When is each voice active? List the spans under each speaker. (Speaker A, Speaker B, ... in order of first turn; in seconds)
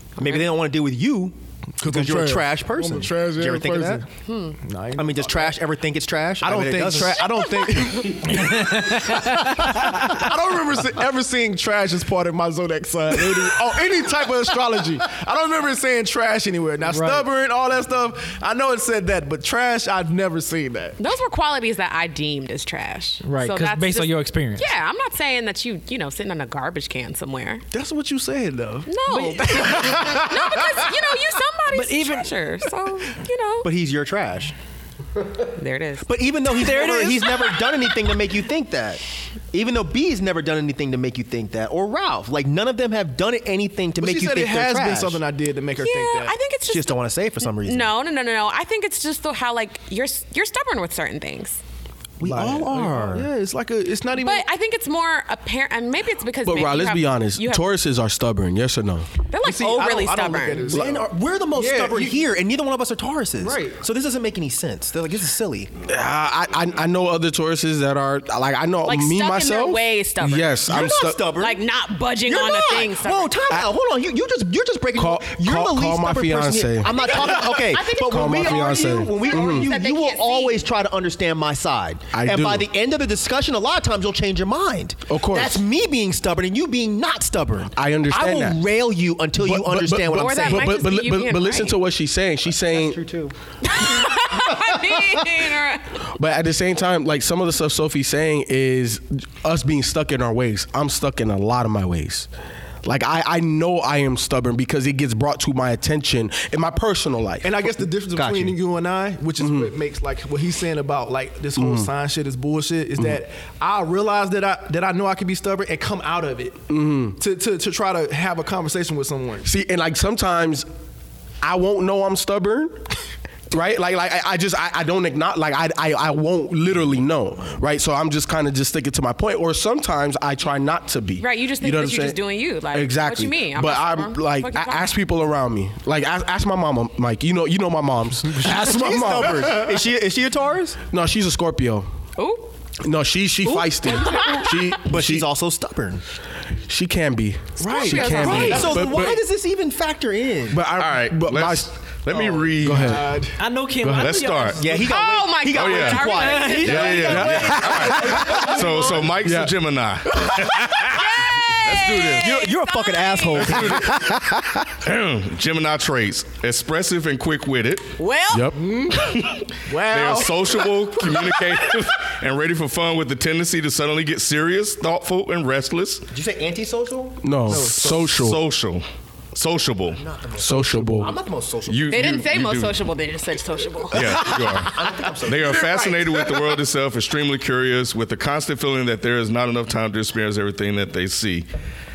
Speaker A: 0.2-4.0, 5.0-7.4, 33.6-34.5, 36.0-45.2, 46.7-47.9, 52.2-53.3, 60.7-65.7, 70.6-71.6, 72.2-90.7, 92.7-93.3, 108.1-108.6, 138.3-140.8, 144.7-146.0, 148.0-150.6, 154.6-156.9, 162.0-164.5, 176.1-177.2, 179.9-182.3, 184.0-186.3
Speaker B: 0.2-0.5, 4.3-4.6, 7.4-8.2, 21.0-27.6, 28.9-33.7, 35.5-37.8, 45.8-51.6, 54.2-57.7, 59.3-60.8, 68.8-70.7, 71.3-73.4, 76.8-80.7, 90.1-91.8, 93.6-96.0, 131.2-134.9, 142.2-142.5, 144.0-144.6, 147.7-148.8, 154.7-157.7, 160.8-163.6, 168.0-169.3, 181.9-184.3
Speaker C: 1.8-4.0, 4.6-5.5, 6.4-21.0, 27.7-31.0, 36.7-37.1, 44.0-46.4, 52.2-54.4, 59.4-62.2, 63.4-63.8, 107.4-119.5, 147.6-148.9, 152.1-153.4, 157.8-159.2, 168.5-171.7, 177.5-178.0
Speaker D: 8.3-9.9, 16.8-17.3, 23.2-24.7, 31.7-32.3, 153.3-154.7, 156.0-158.4
Speaker E: 56.4-59.1, 65.8-71.3, 74.9-79.7, 82.1-82.7, 85.1-85.6, 87.7-88.6, 89.4-93.0, 96.2-102.3, 102.8-107.5, 109.4-109.7, 111.5-111.9, 116.7-117.2, 119.4-120.7, 121.4-122.8, 123.5-132.2, 132.7-139.7, 140.9-141.9, 142.8-145.3, 146.7-149.2, 150.5-151.7, 152.6-153.2, 153.8-154.2, 157.1-158.2, 159.2-159.5, 168.3-168.6, 177.2-178.4, 180.3-181.2
Speaker F: 150.8-153.2, 153.8-154.7, 155.5-161.0, 161.6-162.5, 163.3-164.2, 164.8-168.0, 168.9-176.1, 177.5-180.0, 181.7-182.8, 183.9-191.5